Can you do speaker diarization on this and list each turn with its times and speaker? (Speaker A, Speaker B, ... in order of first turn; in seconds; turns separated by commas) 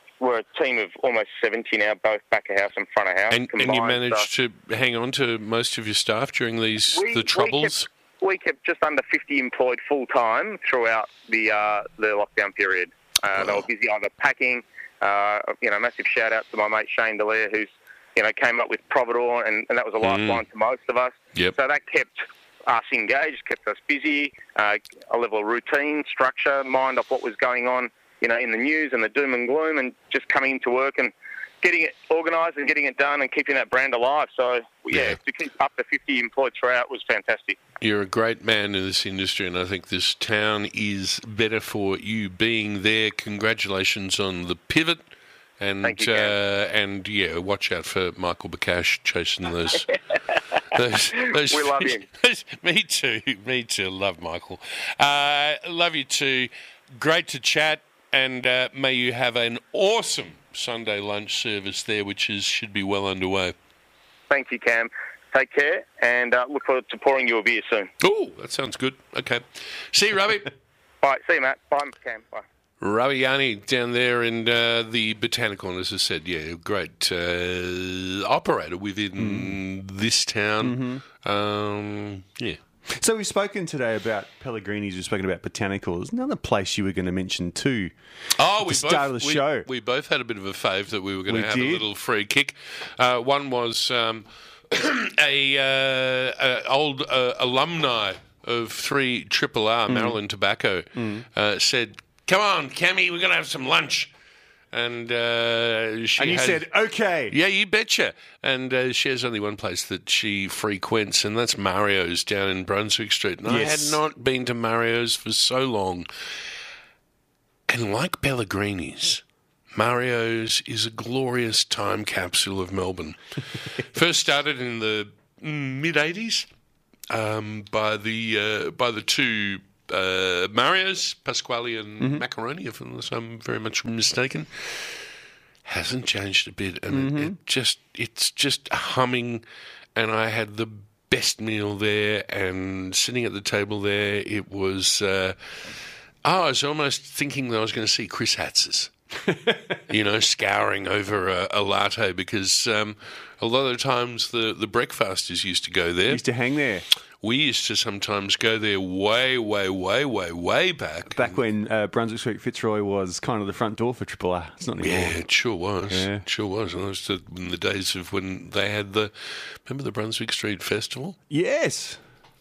Speaker A: 0.2-4.3, Speaker B: 3.3-7.8, Speaker A: 6.9-37.6, Speaker B: 20.0-20.4, Speaker B: 34.9-35.2, Speaker B: 37.8-45.0, Speaker B: 45.6-49.9, Speaker A: 45.8-46.3, Speaker B: 50.7-63.5, Speaker A: 51.2-52.0, Speaker A: 64.3-67.9, Speaker B: 68.0-70.5, Speaker A: 71.0-72.4, Speaker B: 72.8-82.6, Speaker C: 79.2-79.6, Speaker C: 80.6-81.0, Speaker C: 83.0-87.9, Speaker B: 88.4-104.1, Speaker C: 88.6-89.7, Speaker C: 91.3-91.8, Speaker C: 99.9-100.2, Speaker C: 101.0-101.2, Speaker B: 104.7-106.6, Speaker C: 106.2-107.3, Speaker B: 107.3-116.1, Speaker C: 113.4-114.0, Speaker B: 117.7-119.2, Speaker B: 119.7-123.2, Speaker B: 123.8-126.5, Speaker B: 127.1-135.0, Speaker B: 135.7-139.4, Speaker C: 136.9-137.4, Speaker B: 139.9-145.3, Speaker B: 146.2-148.9, Speaker C: 149.3-149.8, Speaker B: 149.9-156.2, Speaker C: 156.1-156.8, Speaker B: 157.2-161.3, Speaker C: 161.1-165.2, Speaker B: 164.8-169.1, Speaker C: 165.9-166.2, Speaker B: 169.7-171.2, Speaker C: 171.3-172.0